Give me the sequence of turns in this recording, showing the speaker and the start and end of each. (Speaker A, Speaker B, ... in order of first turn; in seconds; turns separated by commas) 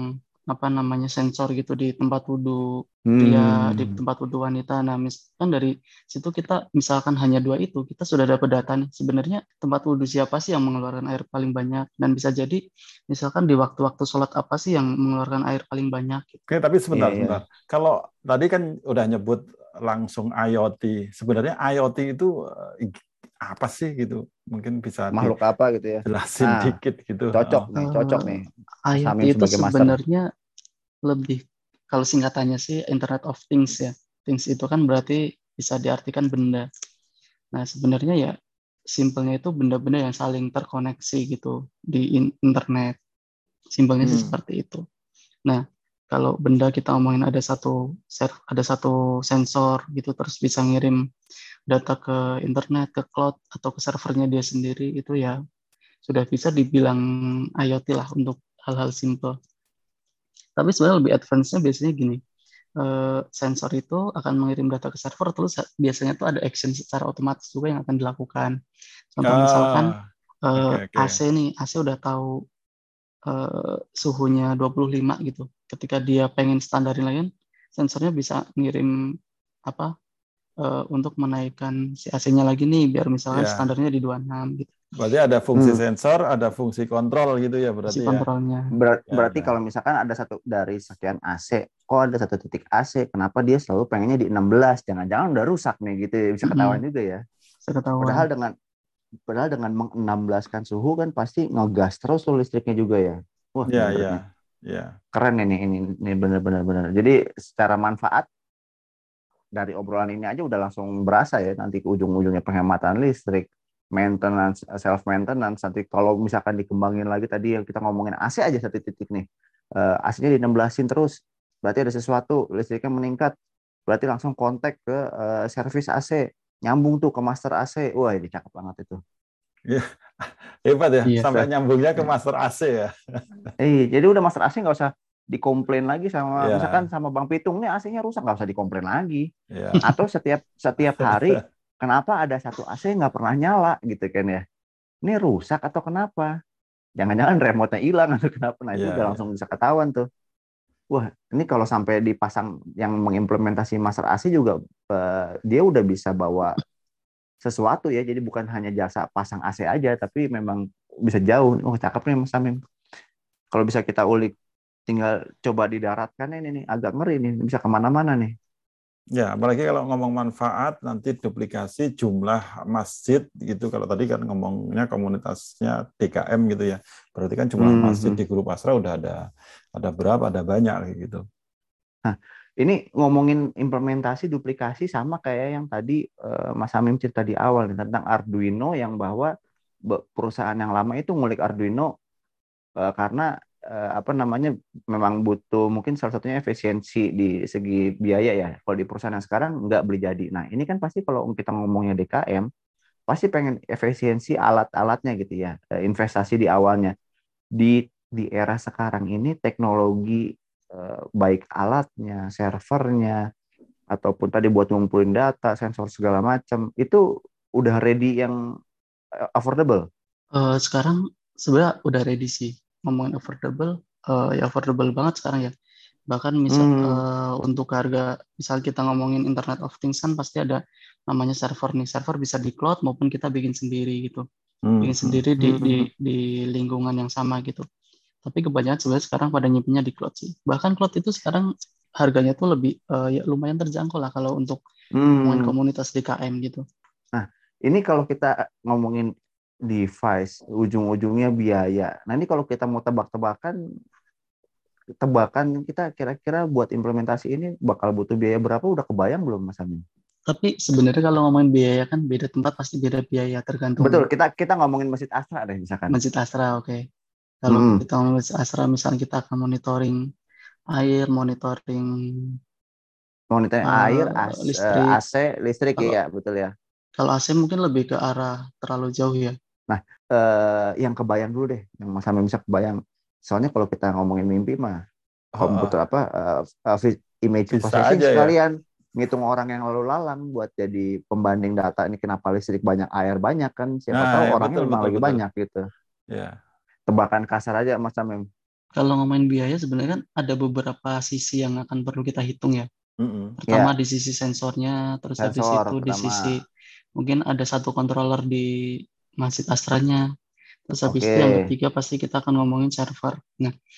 Speaker A: 0.5-2.7, Speaker B: 3.1-4.0, Speaker A: 3.2-16.4, Speaker C: 16.5-25.3, Speaker B: 16.9-17.4, Speaker B: 25.1-26.8, Speaker C: 26.1-27.7, Speaker B: 27.3-30.0, Speaker A: 27.8-30.2, Speaker A: 31.1-31.4, Speaker A: 31.9-36.7, Speaker A: 37.5-38.3, Speaker A: 38.9-43.0, Speaker A: 43.8-44.8, Speaker C: 44.0-44.4, Speaker A: 45.5-51.0, Speaker A: 51.7-55.4, Speaker A: 56.1-59.4, Speaker A: 60.6-62.2, Speaker A: 62.8-68.6, Speaker A: 69.2-69.9, Speaker C: 69.2-70.0, Speaker A: 70.5-72.3, Speaker C: 70.5-71.2, Speaker A: 73.3-78.9, Speaker A: 80.6-84.7, Speaker C: 83.3-83.7, Speaker C: 85.0-88.2, Speaker B: 85.6-85.8, Speaker A: 87.9-88.7, Speaker B: 88.8-97.2, Speaker C: 89.1-89.5, Speaker A: 96.4-96.8, Speaker A: 97.7-98.2, Speaker B: 98.0-98.5, Speaker B: 99.3-104.2, Speaker C: 103.7-105.0, Speaker B: 105.1-108.3, Speaker B: 109.6-119.2, Speaker B: 119.8-121.1, Speaker B: 121.6-123.3, Speaker B: 123.9-129.0, Speaker C: 129.7-133.5, Speaker B: 131.3-132.1, Speaker B: 133.6-139.3, Speaker C: 136.4-136.9, Speaker C: 139.5-139.9, Speaker B: 139.8-144.4, Speaker C: 140.9-141.4, Speaker B: 145.0-146.3, Speaker B: 147.0-150.1, Speaker C: 148.8-149.2, Speaker B: 150.9-156.6, Speaker B: 157.4-162.6, Speaker B: 163.5-164.3, Speaker B: 164.9-168.3, Speaker C: 169.2-179.2, Speaker B: 177.6-178.2, Speaker C: 179.8-181.2, Speaker B: 182.1-189.3, Speaker B: 189.9-191.9, Speaker B: 192.8-202.5, Speaker B: 203.1-206.9, Speaker B: 207.6-213.2, Speaker B: 213.9-217.0, Speaker B: 217.6-218.4, Speaker B: 219.4-219.8, Speaker A: 220.4-225.5, Speaker A: 226.1-234.2, Speaker B: 226.5-227.0, Speaker C: 234.7-235.2, Speaker A: 234.8-237.7, Speaker B: 235.4-235.9, Speaker A: 238.2-241.5, Speaker A: 242.0-244.6, Speaker B: 245.0-245.5, Speaker A: 245.2-246.6, Speaker B: 247.1-249.1, Speaker B: 249.7-253.6, Speaker B: 255.0-259.8, Speaker A: 260.3-264.1, Speaker B: 263.8-265.9, Speaker A: 265.9-266.8, Speaker A: 267.4-270.0, Speaker B: 267.5-267.8, Speaker A: 270.7-271.9, Speaker B: 273.3-276.5, Speaker A: 273.7-275.0, Speaker A: 277.0-279.3, Speaker B: 279.7-284.8, Speaker C: 285.4-285.8, Speaker B: 285.4-295.6, Speaker C: 287.5-288.4, Speaker C: 293.9-295.2, Speaker C: 296.1-296.4, Speaker B: 296.9-298.2, Speaker A: 298.8-302.7, Speaker C: 303.0-303.4, Speaker A: 303.5-306.4, Speaker B: 303.5-303.7, Speaker B: 305.2-306.3, Speaker A: 307.0-308.5, Speaker A: 309.2-310.1, Speaker A: 310.7-313.5, Speaker B: 310.9-311.5